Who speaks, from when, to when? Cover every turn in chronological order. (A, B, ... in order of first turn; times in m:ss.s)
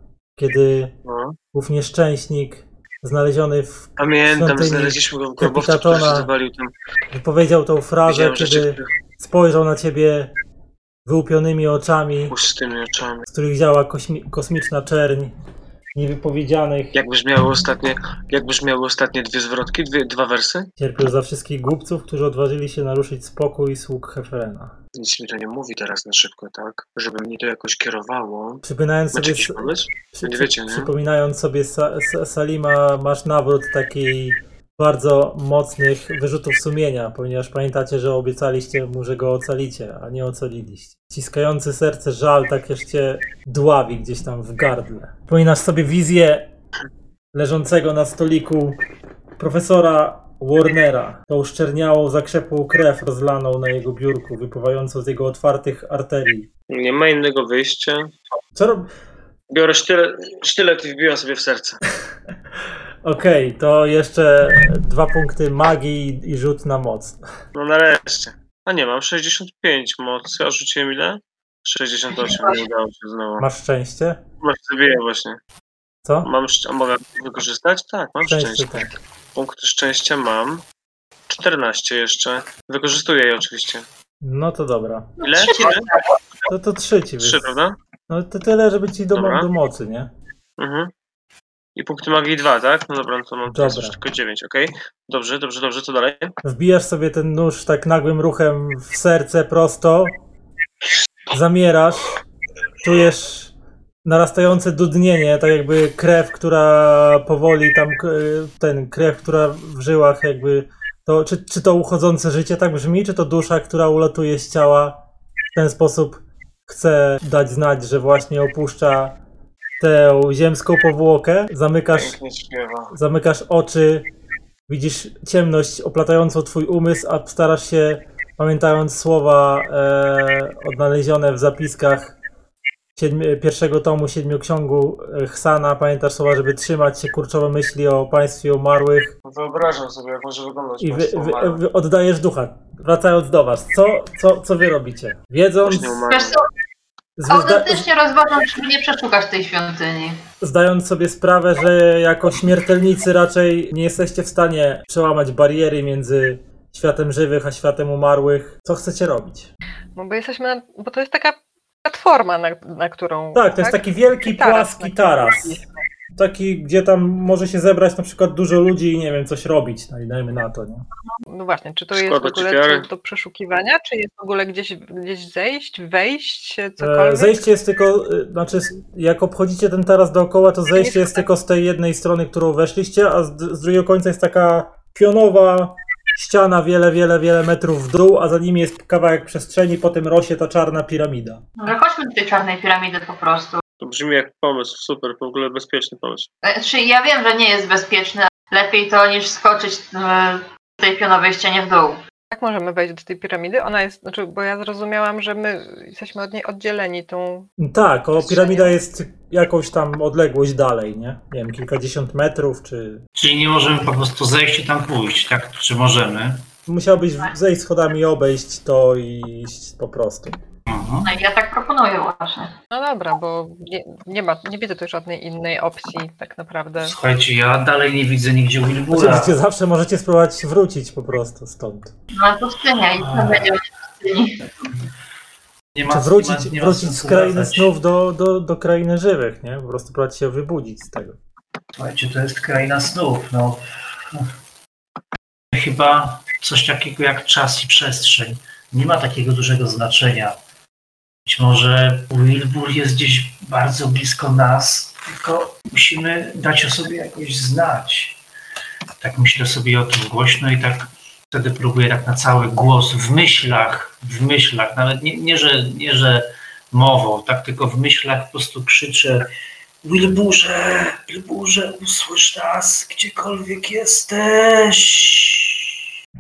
0:00.4-0:00.9 A
0:01.0-0:01.4 B
0:01.5-0:06.3 A
0:04.0-0:06.7 B
0:07.1-0:10.3 A
0:08.1-0:08.9 B
0:11.1-0:12.4 A
0:12.3-0:13.3 B
0:13.3-0:15.3 A
0:16.0-0:17.0 A
0:16.9-0:20.7 B
0:20.8-0:24.7 A
0:25.0-0:28.6 B
0:28.6-0:46.5 A
0:29.1-0:30.9 B
0:47.3-0:48.8 A
0:49.4-0:56.5 A
0:56.7-0:58.1 B
0:58.6-0:58.9 A
0:59.5-1:01.8 B
1:03.0-1:07.3 A
1:07.6-1:13.4 B
1:13.4-1:14.2 A
1:14.4-1:15.4 B
1:16.2-1:20.6 B
1:18.2-1:18.9 A
1:21.3-1:23.9 B
1:24.2-1:25.1 A
1:25.2-1:25.9 B
1:25.2-1:26.0 C
1:26.5-1:30.1 A
1:27.2-1:27.8 B
1:29.1-1:29.5 B
1:30.6-1:30.9 B
1:31.8-1:36.3 B
1:33.5-1:34.0 A
1:36.4-1:40.2 A
1:41.3-1:42.2 A
1:42.8-1:43.5 A
1:44.0-1:55.0 A
1:55.6-1:59.2 A
1:59.8-2:02.2 A
2:01.9-2:02.9 B
2:02.9-2:04.1 A
2:04.7-2:12.1 A
2:13.0-2:19.1 A
2:19.2-2:21.6 B
2:20.8-2:26.0 A
2:25.6-2:26.4 B
2:26.1-2:26.4 C
2:27.2-2:27.9 A
2:27.3-2:30.2 C
2:30.4-2:39.5 A
2:40.0-2:45.7 D
2:43.4-2:45.6 A
2:46.2-2:50.8 A
2:51.3-2:57.5 D
2:51.9-2:52.9 B
2:56.8-3:11.4 A
3:00.8-3:01.2 D
3:11.6-3:13.6 C
3:13.8-3:16.3 B
3:16.4-3:22.0 C
3:22.3-3:27.5 D
3:27.6-3:33.0 A
3:28.2-3:28.8 D
3:33.1-3:36.4 E
3:36.7-3:40.4 A
3:40.7-3:41.1 E
3:41.0-3:42.5 C
3:42.7-3:47.0 D
3:46.8-3:49.4 E
3:48.9-3:51.9 A
3:52.2-3:54.5 C
3:53.0-3:53.6 E
3:55.7-3:57.7 E
3:55.9-4:01.2 A
4:01.8-4:04.3 E
4:05.5-4:10.4 E
4:11.3-4:18.2 E
4:19.0-4:29.3 E
4:29.8-4:35.8 E